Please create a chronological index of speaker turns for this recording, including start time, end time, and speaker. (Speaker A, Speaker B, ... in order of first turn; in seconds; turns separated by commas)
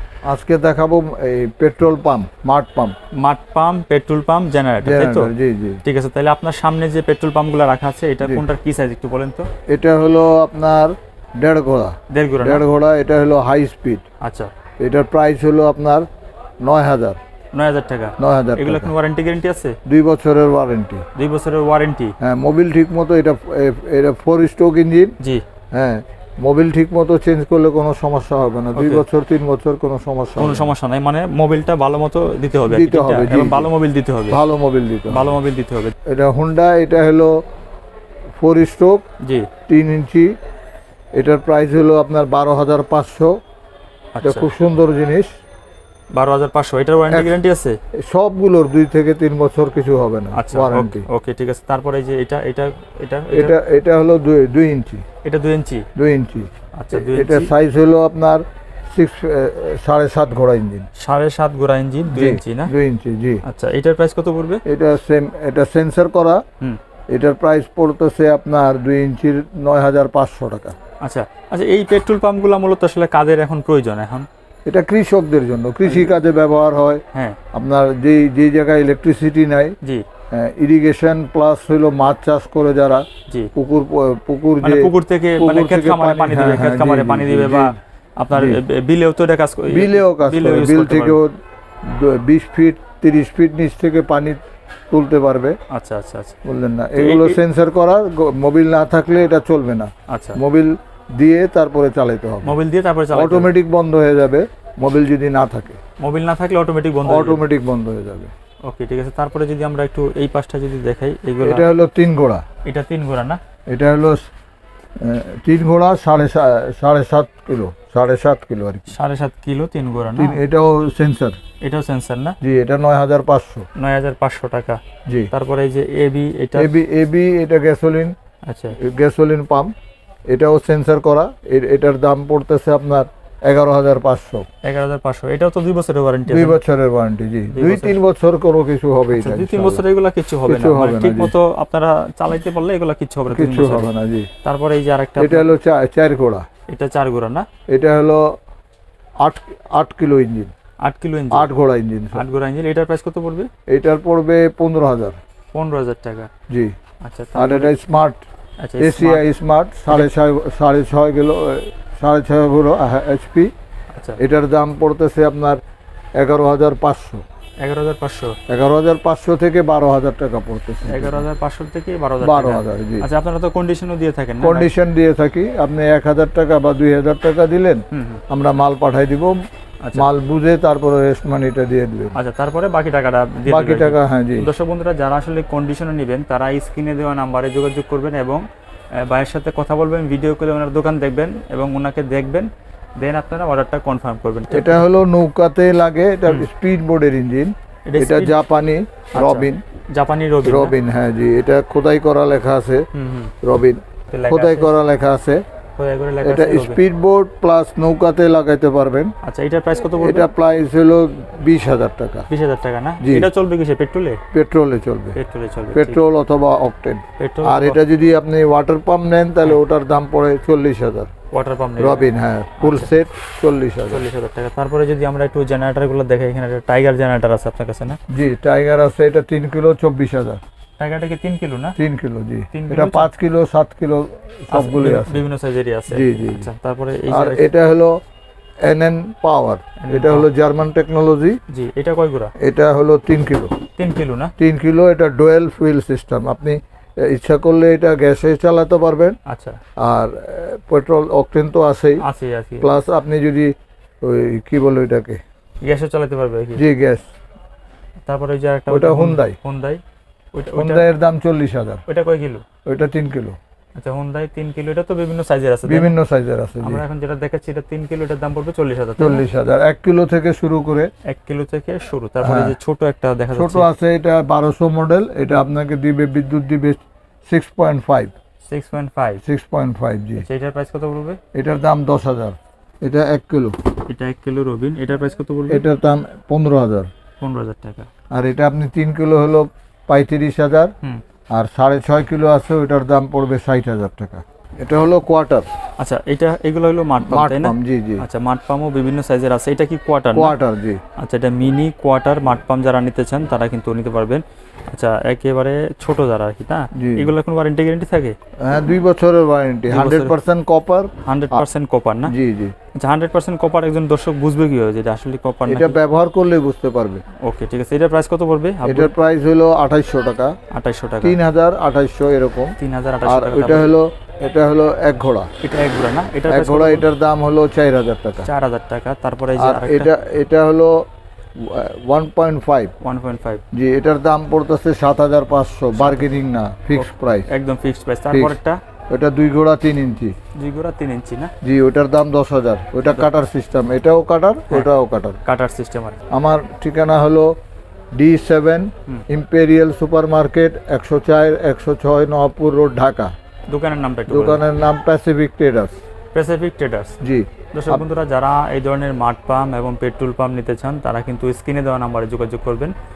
Speaker A: 0.3-2.9, Speaker B: 3.2-5.3, Speaker A: 4.8-5.8, Speaker B: 5.8-9.5, Speaker A: 9.7-14.0, Speaker B: 12.1-12.6, Speaker B: 14.2-14.5, Speaker A: 14.8-16.1, Speaker A: 16.6-17.2, Speaker B: 17.5-19.8, Speaker A: 18.2-18.9, Speaker A: 19.9-21.1, Speaker B: 21.2-22.1, Speaker A: 22.2-25.1, Speaker A: 25.7-30.7, Speaker B: 28.8-29.0, Speaker B: 30.4-34.4, Speaker A: 32.7-33.7, Speaker A: 34.3-35.4, Speaker B: 35.1-35.9, Speaker A: 36.0-37.3, Speaker A: 38.4-39.0, Speaker B: 39.2-39.5, Speaker A: 39.7-40.3, Speaker A: 41.1-43.3, Speaker B: 44.2-44.5, Speaker A: 44.2-45.3, Speaker B: 46.1-47.8, Speaker A: 47.0-47.4, Speaker A: 48.0-51.1, Speaker B: 50.3-53.5, Speaker A: 53.3-55.0, Speaker B: 55.2-55.9, Speaker A: 56.0-60.9, Speaker B: 56.8-57.5, Speaker B: 61.0-62.7, Speaker A: 62.1-63.4, Speaker B: 63.5-64.6, Speaker A: 64.7-66.4, Speaker A: 67.1-70.8, Speaker B: 71.0-74.3, Speaker A: 74.7-77.0, Speaker B: 75.9-76.1, Speaker A: 77.5-79.8, Speaker A: 80.3-87.8, Speaker B: 84.6-91.2, Speaker A: 88.3-88.6, Speaker A: 89.7-91.3, Speaker A: 91.8-94.4, Speaker A: 94.9-95.6, Speaker B: 95.7-96.4, Speaker A: 96.5-102.6, Speaker B: 97.0-97.4, Speaker B: 100.1-100.4, Speaker B: 102.4-103.5, Speaker A: 103.1-105.8, Speaker B: 106.0-107.4, Speaker A: 107.1-108.3, Speaker B: 108.7-111.6, Speaker A: 111.4-112.4, Speaker B: 112.7-113.4, Speaker A: 113.7-114.3, Speaker A: 115.0-118.9, Speaker B: 118.9-120.4, Speaker A: 120.2-121.4, Speaker B: 121.6-122.4, Speaker A: 122.4-123.7, Speaker B: 123.8-124.8, Speaker B: 125.3-126.7, Speaker A: 126.6-128.1, Speaker B: 128.5-128.8, Speaker A: 128.8-129.7, Speaker A: 130.3-134.4, Speaker B: 134.6-136.6, Speaker A: 136.3-139.8, Speaker B: 137.5-138.0, Speaker B: 139.1-143.9, Speaker A: 140.5-141.3, Speaker A: 143.3-144.3, Speaker B: 144.4-145.5, Speaker A: 145.2-146.5, Speaker B: 146.7-147.5, Speaker A: 147.7-148.2, Speaker A: 149.2-150.5, Speaker B: 150.8-151.5, Speaker A: 151.3-152.2, Speaker B: 152.1-153.5, Speaker A: 153.7-155.2, Speaker B: 155.5-156.3, Speaker A: 156.5-156.8, Speaker B: 157.0-157.7, Speaker A: 157.3-158.2, Speaker B: 158.6-159.2, Speaker A: 158.8-163.5, Speaker B: 163.9-164.2, Speaker A: 164.2-165.6, Speaker A: 166.2-167.2, Speaker B: 167.6-168.4, Speaker A: 168.5-171.2, Speaker B: 170.9-174.7, Speaker A: 172.2-173.1, Speaker A: 174.4-179.3, Speaker B: 177.9-178.2, Speaker B: 179.8-180.1, Speaker A: 180.0-182.2, Speaker B: 182.2-188.4, Speaker A: 183.5-184.5, Speaker B: 189.0-194.8, Speaker A: 194.5-199.6, Speaker B: 197.9-198.4, Speaker B: 199.2-200.7, Speaker A: 200.4-202.8, Speaker B: 202.9-203.3, Speaker A: 203.4-205.4, Speaker B: 204.1-204.7, Speaker B: 205.8-206.8, Speaker A: 206.2-209.1, Speaker B: 209.2-210.3, Speaker A: 209.8-212.3, Speaker B: 212.3-214.2, Speaker A: 213.0-213.3, Speaker A: 214.3-215.2, Speaker B: 215.2-216.0, Speaker A: 215.7-221.1, Speaker B: 217.2-217.8, Speaker B: 221.3-222.1, Speaker A: 221.8-224.1, Speaker B: 222.6-222.9, Speaker B: 223.9-228.0, Speaker A: 228.1-230.4, Speaker B: 230.8-231.8, Speaker A: 231.8-235.2, Speaker B: 232.5-233.1, Speaker B: 234.5-237.5, Speaker A: 235.9-236.5, Speaker A: 237.1-237.9, Speaker A: 238.6-241.4, Speaker B: 239.8-240.3, Speaker B: 241.5-242.3, Speaker A: 242.4-243.5, Speaker B: 243.8-244.3, Speaker A: 244.4-249.2, Speaker B: 249.3-249.6, Speaker A: 249.8-252.0, Speaker B: 252.0-252.7, Speaker A: 252.6-255.2, Speaker B: 255.6-256.6, Speaker A: 256.6-257.0, Speaker B: 258.1-259.8, Speaker A: 258.7-259.4, Speaker B: 260.3-260.9, Speaker A: 260.5-261.8, Speaker B: 261.9-262.4, Speaker A: 262.7-263.4, Speaker B: 263.8-265.9, Speaker A: 265.6-266.8, Speaker B: 266.6-269.2, Speaker A: 269.0-270.9, Speaker B: 271.1-273.7, Speaker A: 272.2-272.6, Speaker A: 273.3-278.1, Speaker B: 278.5-279.2, Speaker A: 279.2-280.2, Speaker B: 280.2-281.2, Speaker A: 281.3-283.6, Speaker B: 283.9-285.6, Speaker A: 285.5-286.9, Speaker B: 287.2-287.9, Speaker A: 288.1-290.7, Speaker A: 291.3-295.5, Speaker B: 295.8-300.4, Speaker A: 297.0-298.1, Speaker A: 300.1-300.8, Speaker B: 301.0-308.1, Speaker A: 306.8-307.1, Speaker A: 308.4-311.4, Speaker B: 309.7-310.1, Speaker B: 311.1-312.1, Speaker A: 312.1-312.6, Speaker B: 312.8-315.8, Speaker A: 315.5-317.0, Speaker B: 317.2-318.9, Speaker A: 318.6-320.3, Speaker B: 320.5-321.2, Speaker A: 321.0-325.3, Speaker B: 322.6-323.7, Speaker B: 325.4-326.9, Speaker A: 326.3-328.3, Speaker B: 328.2-329.9, Speaker A: 329.4-330.8, Speaker A: 331.4-332.7, Speaker B: 332.8-333.4, Speaker A: 333.5-337.3, Speaker B: 335.8-336.1, Speaker B: 336.8-338.6, Speaker A: 338.1-338.4, Speaker A: 338.9-340.1, Speaker B: 340.4-341.3, Speaker A: 341.4-345.2, Speaker B: 345.2-346.0, Speaker A: 346.1-347.3, Speaker A: 348.0-353.1, Speaker B: 353.5-354.4, Speaker A: 354.1-355.8, Speaker B: 356.1-357.0, Speaker A: 357.0-357.9, Speaker B: 357.5-362.7